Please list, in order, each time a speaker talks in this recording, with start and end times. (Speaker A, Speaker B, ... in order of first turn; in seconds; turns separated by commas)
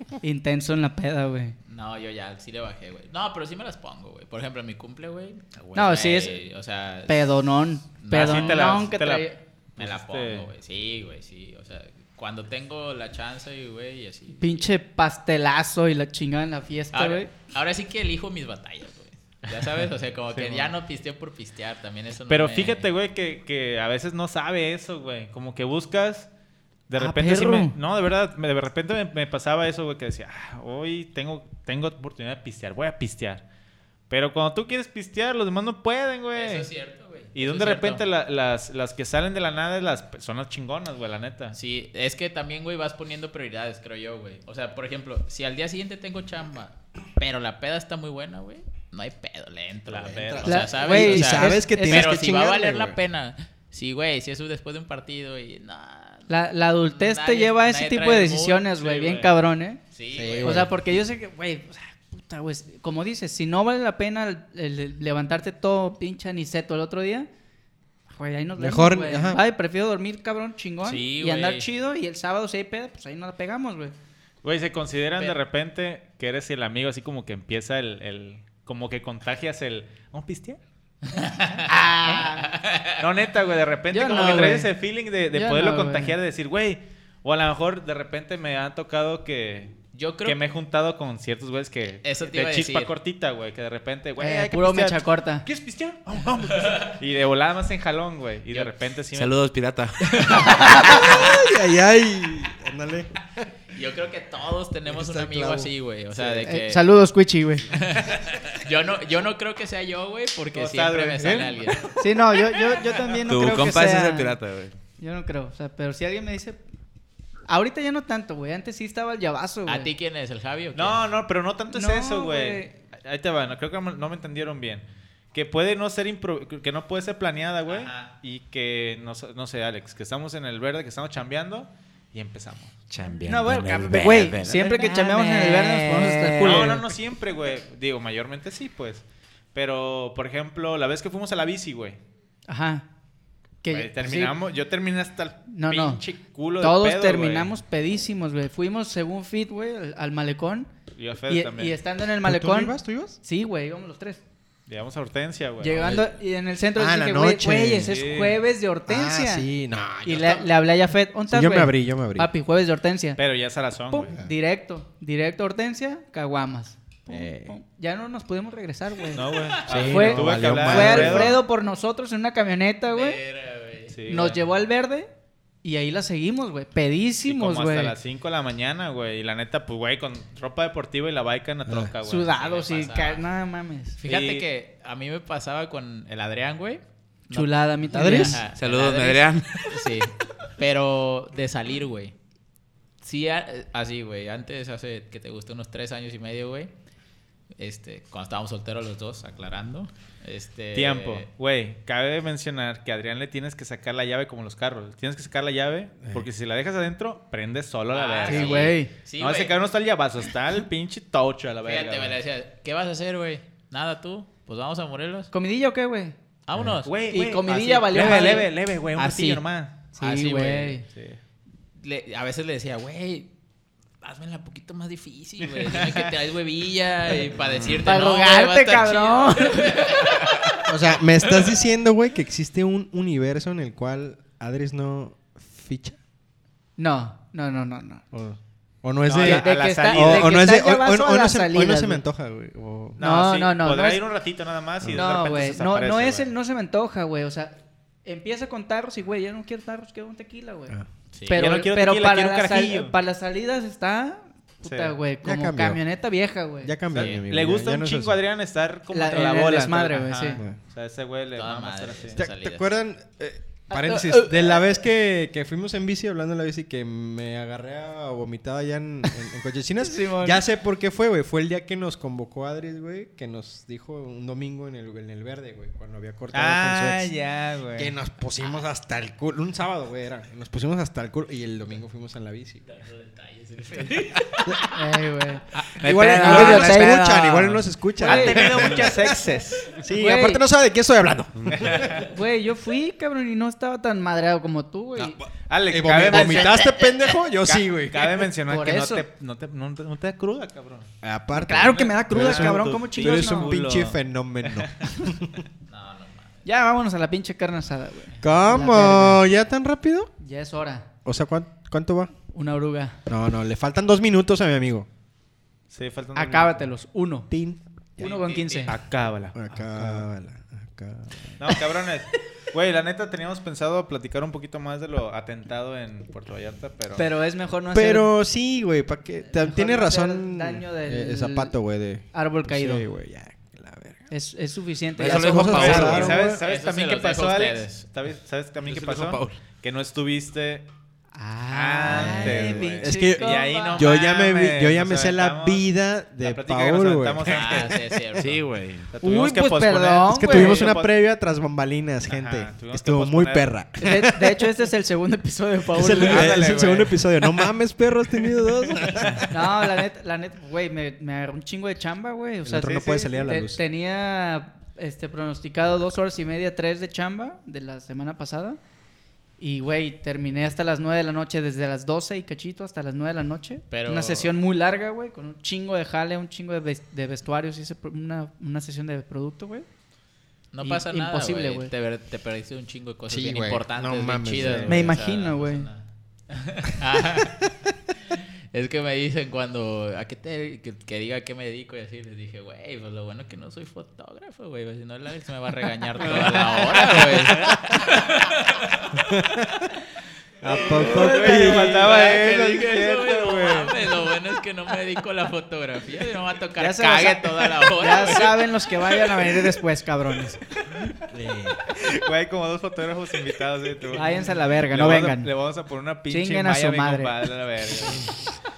Speaker A: 0.2-1.6, Speaker B: 1.6-7.3, Speaker A: 5.7-6.4, Speaker A: 7.1-9.4, Speaker B: 8.0-8.9, Speaker C: 8.1-10.5, Speaker B: 9.8-14.7, Speaker A: 14.3-17.3, Speaker B: 16.9-22.9, Speaker C: 20.3-20.7, Speaker C: 22.3-26.3, Speaker C: 26.9-33.4, Speaker A: 27.0-27.7, Speaker C: 34.1-36.7, Speaker B: 36.3-38.0, Speaker C: 37.3-41.6, Speaker B: 41.5-56.3, Speaker C: 49.9-50.7, Speaker D: 50.3-53.0, Speaker A: 50.5-52.2, Speaker A: 56.3-59.8, Speaker B: 56.8-58.7, Speaker C: 58.8-59.4, Speaker B: 59.9-60.7, Speaker D: 60.1-60.7, Speaker A: 60.4-67.3, Speaker A: 68.1-73.9, Speaker D: 68.5-69.4, Speaker B: 70.8-71.7, Speaker C: 74.4-80.6, Speaker B: 81.0-83.1, Speaker A: 81.7-82.5, Speaker C: 83.0-99.3, Speaker A: 83.9-84.7, Speaker A: 85.3-86.2, Speaker B: 89.9-90.4, Speaker B: 92.0-92.9, Speaker A: 94.2-95.5, Speaker B: 96.6-96.9, Speaker E: 99.1-100.7, Speaker B: 100.1-100.7, Speaker A: 100.4-101.1, Speaker D: 100.9-103.4, Speaker B: 103.7-106.8, Speaker D: 104.8-105.7, Speaker A: 106.4-107.7, Speaker B: 107.7-111.9, Speaker C: 110.5-111.9, Speaker A: 112.0-114.3, Speaker E: 113.2-114.7, Speaker A: 115.0-116.6, Speaker A: 117.5-119.9, Speaker B: 119.7-121.0, Speaker C: 120.7-132.7, Speaker A: 121.7-122.7, Speaker B: 127.6-128.1, Speaker E: 132.9-136.7, Speaker A: 133.2-136.8, Speaker C: 136.3-142.0, Speaker A: 142.5-142.8, Speaker A: 143.6-144.3, Speaker C: 143.7-147.5, Speaker A: 145.5-146.0, Speaker A: 146.6-150.7, Speaker C: 150.9-151.8, Speaker A: 151.3-154.2, Speaker D: 152.2-153.2, Speaker C: 154.7-156.0, Speaker A: 155.6-159.5, Speaker D: 156.8-158.3, Speaker C: 157.8-158.4, Speaker D: 158.8-160.5, Speaker A: 160.0-163.2, Speaker D: 161.3-162.3, Speaker C: 163.2-164.2, Speaker A: 163.9-173.2, Speaker D: 167.1-167.6, Speaker C: 169.1-171.4, Speaker B: 169.2-169.9, Speaker D: 169.7-171.4, Speaker B: 172.9-174.0, Speaker C: 173.9-174.4, Speaker A: 174.1-175.1, Speaker A: 175.6-177.9, Speaker C: 177.2-182.3, Speaker D: 181.7-181.9, Speaker A: 182.0-184.0, Speaker B: 182.2-183.2, Speaker B: 184.0-192.1, Speaker C: 184.0-184.4, Speaker A: 187.3-188.4, Speaker E: 187.9-189.7, Speaker B: 193.0-196.7, Speaker B: 197.6-201.3, Speaker C: 200.7-212.2, Speaker B: 207.9-209.6, Speaker A: 208.2-208.9, Speaker B: 211.6-215.3, Speaker A: 215.3-216.1, Speaker B: 216.4-217.2, Speaker C: 216.8-219.9, Speaker A: 217.1-219.4, Speaker B: 217.9-218.4, Speaker A: 219.9-220.8, Speaker B: 220.0-220.8, Speaker C: 220.9-221.2, Speaker B: 221.8-223.3, Speaker B: 224.0-230.5, Speaker C: 225.6-226.1, Speaker A: 227.7-230.3, Speaker D: 230.6-236.0, Speaker A: 236.8-238.0, Speaker D: 238.1-243.0, Speaker C: 239.1-240.4, Speaker A: 239.1-242.0, Speaker C: 243.0-246.3, Speaker A: 243.0-244.0, Speaker A: 244.9-250.8, Speaker B: 251.1-251.4, Speaker A: 251.3-256.8, Speaker C: 251.3-252.9, Speaker C: 254.6-254.9, Speaker D: 255.2-255.8, Speaker D: 256.6-258.2, Speaker C: 256.9-262.2, Speaker B: 256.9-257.2, Speaker A: 258.9-260.4, Speaker B: 261.4-262.7, Speaker D: 262.1-277.1, Speaker A: 263.7-264.6, Speaker A: 269.8-270.4, Speaker C: 276.3-277.9, Speaker D: 277.7-282.6, Speaker B: 282.6-284.8, Speaker A: 284.7-287.3, Speaker E: 285.6-287.7, Speaker D: 285.8-291.9, Speaker A: 288.0-289.2, Speaker C: 288.0-289.8, Speaker A: 289.9-290.4, Speaker C: 291.5-292.1, Speaker B: 291.7-292.0, Speaker A: 292.0-295.2, Speaker D: 295.0-298.3, Speaker C: 295.5-296.8, Speaker A: 296.1-296.5, Speaker B: 296.7-297.2, Speaker C: 297.4-300.9, Speaker A: 298.5-299.0, Speaker D: 301.0-305.3, Speaker A: 301.3-303.6, Speaker C: 301.5-305.4, Speaker B: 305.7-306.4, Speaker A: 306.4-309.2, Speaker D: 308.2-310.1, Speaker A: 310.2-310.9, Speaker D: 311.0-312.1, Speaker A: 312.3-313.0, Speaker D: 313.1-314.9, Speaker C: 315.7-316.7, Speaker A: 316.1-317.3, Speaker D: 317.3-318.1, Speaker A: 318.0-318.7, Speaker B: 318.0-318.8, Speaker C: 318.7-320.0, Speaker D: 319.3-321.5, Speaker C: 321.4-327.1, Speaker A: 326.9-328.1, Speaker D: 327.7-334.1, Speaker A: 329.3-331.5, Speaker A: 332.1-332.9, Speaker A: 334.1-336.3, Speaker E: 335.0-336.2, Speaker D: 335.0-336.4, Speaker C: 335.4-340.7, Speaker B: 336.4-337.9, Speaker E: 338.6-339.4, Speaker A: 341.1-344.0, Speaker C: 341.5-345.6, Speaker D: 341.9-347.7, Speaker C: 346.2-347.8, Speaker B: 347.2-348.4, Speaker E: 348.2-348.9, Speaker C: 348.9-350.9, Speaker A: 349.0-350.8, Speaker D: 350.1-354.5, Speaker C: 352.0-353.6, Speaker A: 353.8-356.5, Speaker D: 355.7-359.8, Speaker C: 355.9-357.0, Speaker C: 358.8-359.2, Speaker A: 359.3-368.6, Speaker D: 362.4-363.6, Speaker A: 369.4-379.6, Speaker B: 373.7-374.3, Speaker B: 380.5-399.5, Speaker A: 380.6-381.7, Speaker D: 383.1-384.9, Speaker A: 384.7-385.7, Speaker D: 396.2-397.5, Speaker D: 399.0-399.6, Speaker D: 400.4-402.1, Speaker B: 400.5-408.5, Speaker C: 400.6-403.9, Speaker A: 400.9-401.8, Speaker A: 406.6-410.4, Speaker D: 411.1-411.6, Speaker C: 411.8-418.1, Speaker A: 413.9-415.3, Speaker A: 416.1-417.2